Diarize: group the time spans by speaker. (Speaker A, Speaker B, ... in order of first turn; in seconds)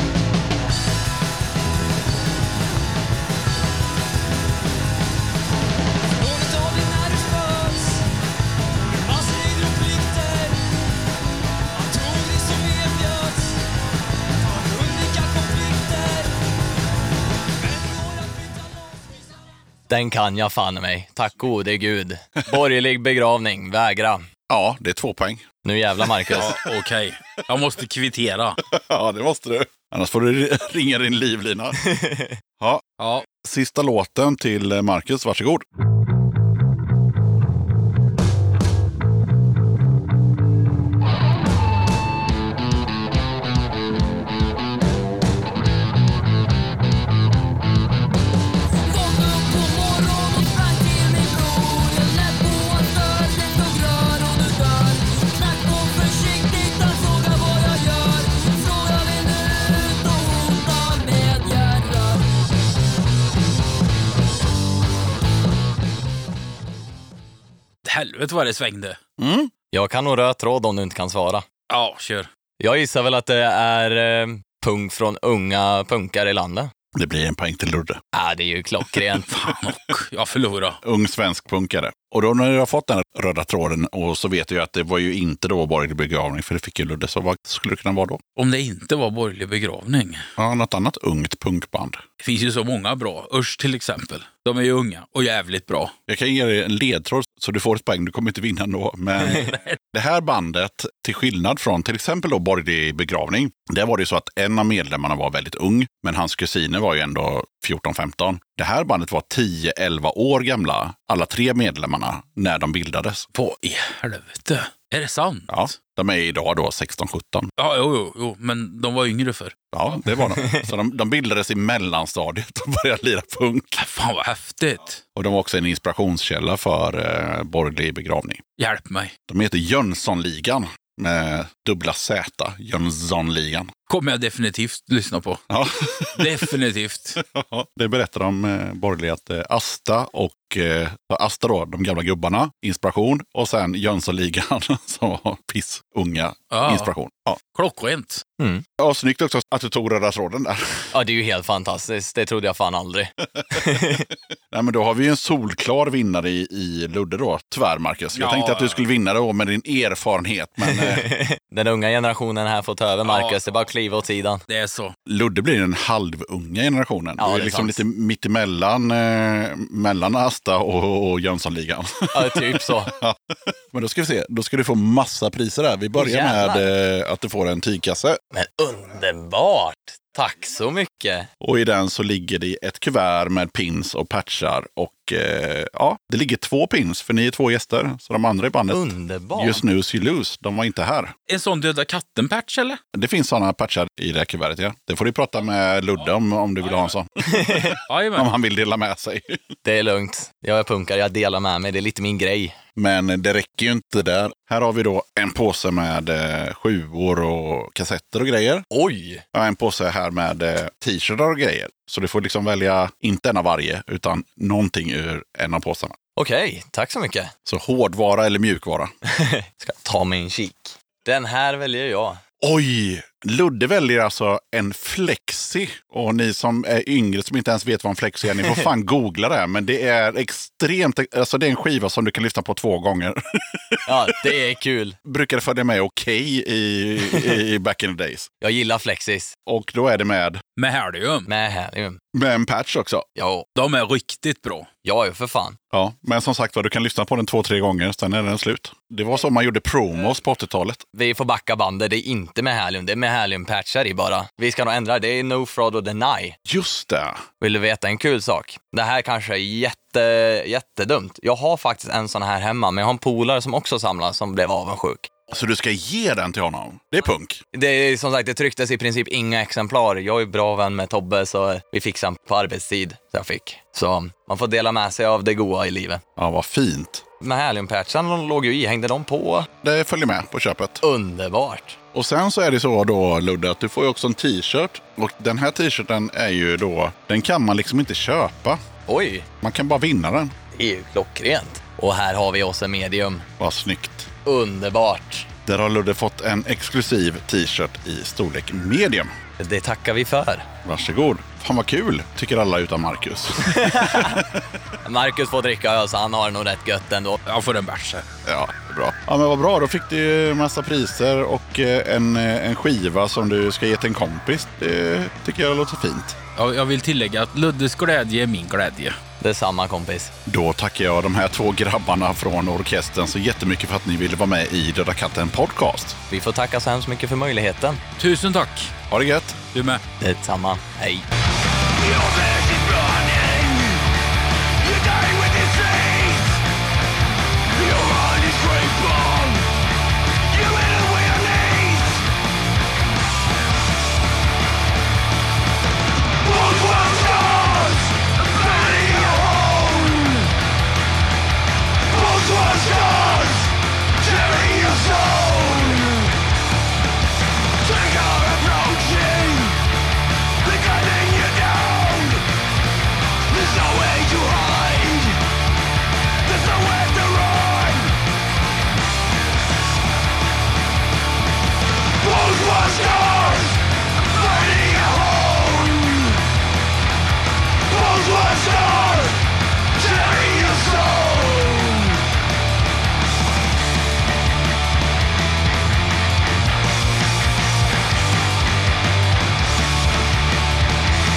Speaker A: 6.2-8.0, 9.0-10.7, 11.7-13.6, 14.4-16.4, 17.6-19.2, 331.7-333.9, 334.6-336.4, 337.5-339.6, 340.2-342.1, 346.2-350.3, 351.9-356.1, 357.6-359.6, 360.4-362.3, 363.3-365.2, 366.2-367.9, 372.0-376.2, 377.6-382.0
Speaker B: 19.9-24.2, 25.6-26.6, 31.9-32.3, 69.7-71.5, 72.6-76.7, 78.1-79.3, 148.4-148.6, 150.9-154.1, 160.7-164.4, 167.2-167.8, 172.1-172.9, 175.9-176.7, 178.3-181.3, 188.7-189.6, 197.3-197.7, 199.6-202.6, 208.7-209.2, 216.2-217.3, 219.0-222.2, 233.8-234.9, 238.4-239.3, 241.3-242.0, 243.2-243.4, 244.8-245.6, 250.9-256.4, 257.4-265.1, 267.5-276.0, 277.2-279.5, 280.8-281.8, 288.9-289.3, 290.5-293.2, 294.2-295.3, 299.4-300.5, 303.4-304.2, 304.8-307.2, 319.2-320.1, 326.1-327.8, 330.0-331.1
Speaker C: 24.5-25.5, 26.2-26.5, 28.6-31.8, 32.6-35.6, 69.2-69.5, 76.9-78.0, 80.8-88.2, 90.4-92.0, 96.1-113.3, 115.5-117.5, 119.7-123.8, 125.1-128.4, 129.3-133.7, 135.5-136.5, 137.2-147.4, 148.8-150.9, 153.4-161.1, 165.1-178.2, 181.4-191.1, 192.9-199.6, 202.8-208.7, 209.3-216.0, 217.4-218.9, 222.4-234.3, 235.0-238.3, 239.4-240.4, 242.1-243.1, 245.7-250.8, 256.4-257.2, 265.3-267.4, 276.2-277.0, 279.6-280.8, 281.9-288.6, 289.4-290.4, 293.4-294.1, 295.4-299.1, 300.6-304.4, 308.2-316.2, 320.2-326.0, 328.9-329.4
Speaker D: 26.3-28.6, 33.0-33.3, 67.8-69.0, 71.7-72.3, 79.3-80.8, 88.3-90.3, 92.2-95.9, 99.2-99.8, 113.3-115.7, 117.6-119.6, 123.7-125.0, 128.6-129.1, 133.9-135.4, 136.1-137.2, 146.5-146.9, 147.4-148.2, 158.1-158.8, 163.0-163.4, 164.5-164.9, 191.3-192.8, 197.9-198.3, 240.6-241.3, 243.6-244.7, 307.2-308.1, 316.4-319.0, 328.0-328.7, 329.5-329.8
Speaker E: 48.9-57.5, 58.2-62.1